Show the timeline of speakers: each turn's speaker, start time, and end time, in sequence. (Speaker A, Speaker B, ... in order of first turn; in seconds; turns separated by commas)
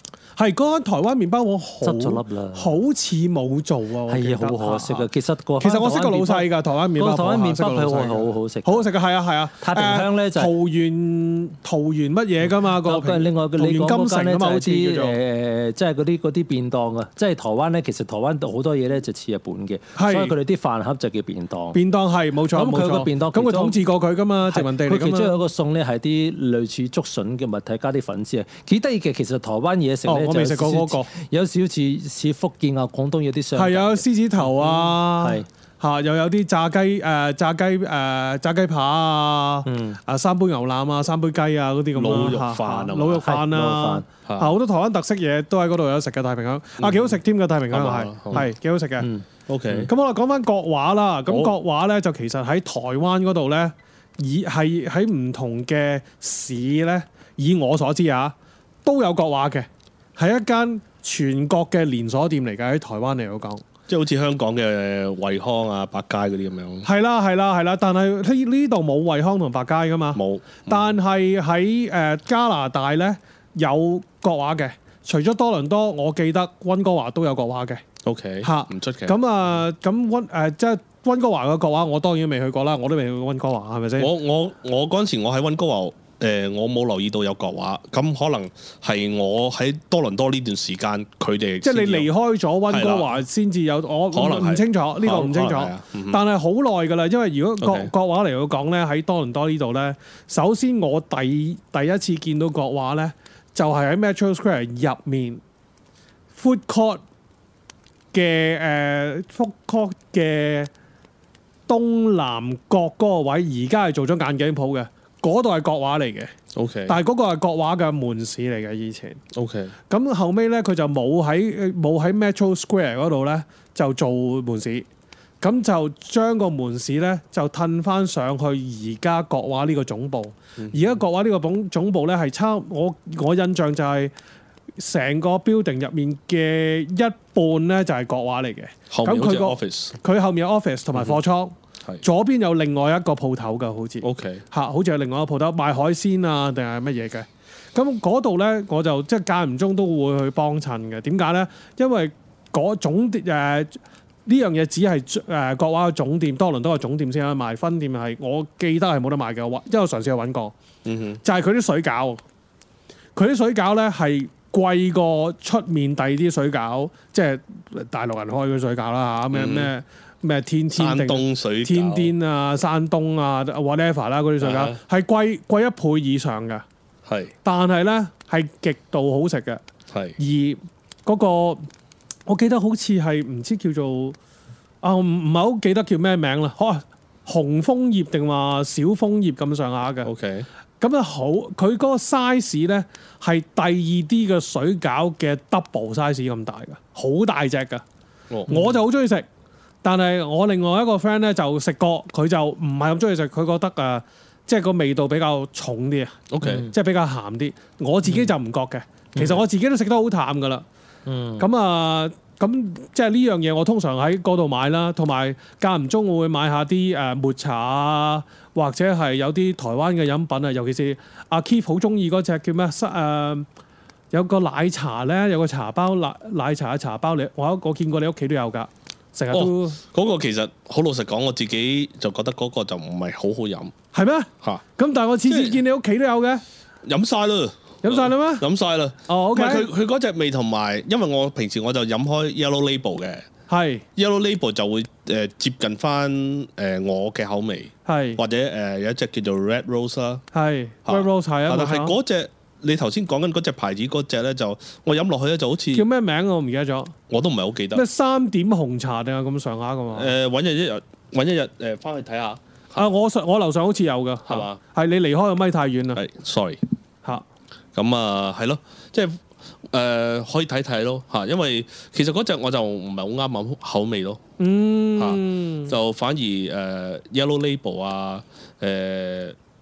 Speaker A: 0.4-5.1, Speaker B: 1.8-2.7, Speaker B: 4.1-8.9, Speaker A: 5.6-15.2, Speaker B: 9.6-10.5, Speaker B: 12.4-21.8, Speaker A: 19.9-20.3, Speaker A: 21.7-25.4, Speaker B: 22.5-23.8, Speaker B: 24.5-35.5, Speaker A: 30.1-31.1, Speaker A: 33.5-49.1, Speaker B: 39.6-40.0, Speaker C: 42.0-43.3, Speaker B: 43.2-44.0, Speaker C: 44.2-44.5, Speaker C: 46.8-47.1, Speaker C: 47.7-48.5, Speaker B: 49.0-49.9, Speaker C: 49.5-49.9, Speaker A: 49.9-58.3, Speaker C: 51.3-51.5, Speaker A: 58.8-63.6, Speaker C: 63.9-66.9, Speaker A: 66.8-77.8, Speaker C: 70.1-70.9, Speaker C: 78.0-79.2, Speaker A: 78.4-84.1, Speaker C: 84.0-92.1, Speaker A: 91.6-105.4, Speaker C: 92.7-93.1, Speaker C: 94.1-96.2, Speaker C: 97.6-97.9, Speaker A: 106.3-107.0, Speaker A: 108.1-110.7, Speaker A: 111.7-116.3, Speaker C: 116.5-117.0, Speaker A: 116.9-119.2, Speaker C: 119.3-119.7, Speaker A: 119.9-124.8, Speaker A: 125.4-134.1, Speaker A: 134.8-160.5, Speaker C: 138.9-139.9, Speaker C: 144.0-144.4, Speaker C: 160.8-161.2, Speaker A: 161.2-162.2, Speaker A: 163.2-176.6, Speaker C: 169.3-169.7, Speaker C: 170.7-172.1, Speaker C: 174.4-174.8, Speaker C: 177.1-177.3, Speaker A: 177.4-179.6, Speaker C: 179.9-180.2, Speaker A: 180.2-181.7, Speaker A: 182.3-184.2, Speaker A: 184.8-190.1, Speaker C: 190.0-190.5, Speaker A: 190.8-197.8, Speaker C: 198.3-198.6, Speaker A: 198.5-199.2, Speaker B: 198.5-198.8, Speaker A: 199.8-210.6, Speaker C: 206.3-206.7, Speaker B: 206.4-206.7, Speaker B: 208.0-208.3, Speaker B: 211.1-211.5, Speaker A: 211.4-223.4, Speaker A: 224.1-229.8, Speaker C: 229.3-233.7, Speaker A: 233.9-236.4, Speaker C: 235.2-235.6, Speaker C: 236.8-243.3, Speaker A: 237.8-238.5, Speaker A: 239.1-239.7, Speaker A: 243.5-243.8, Speaker C: 243.9-250.2, Speaker A: 247.9-248.2, Speaker A: 250.3-251.9, Speaker C: 250.8-255.9, Speaker A: 255.7-256.9, Speaker C: 257.1-257.8, Speaker A: 257.7-260.1, Speaker C: 259.9-262.4, Speaker A: 262.8-266.0, Speaker C: 264.3-264.6, Speaker C: 265.9-266.6, Speaker C: 267.7-274.2, Speaker A: 274.4-275.7, Speaker C: 275.0-279.4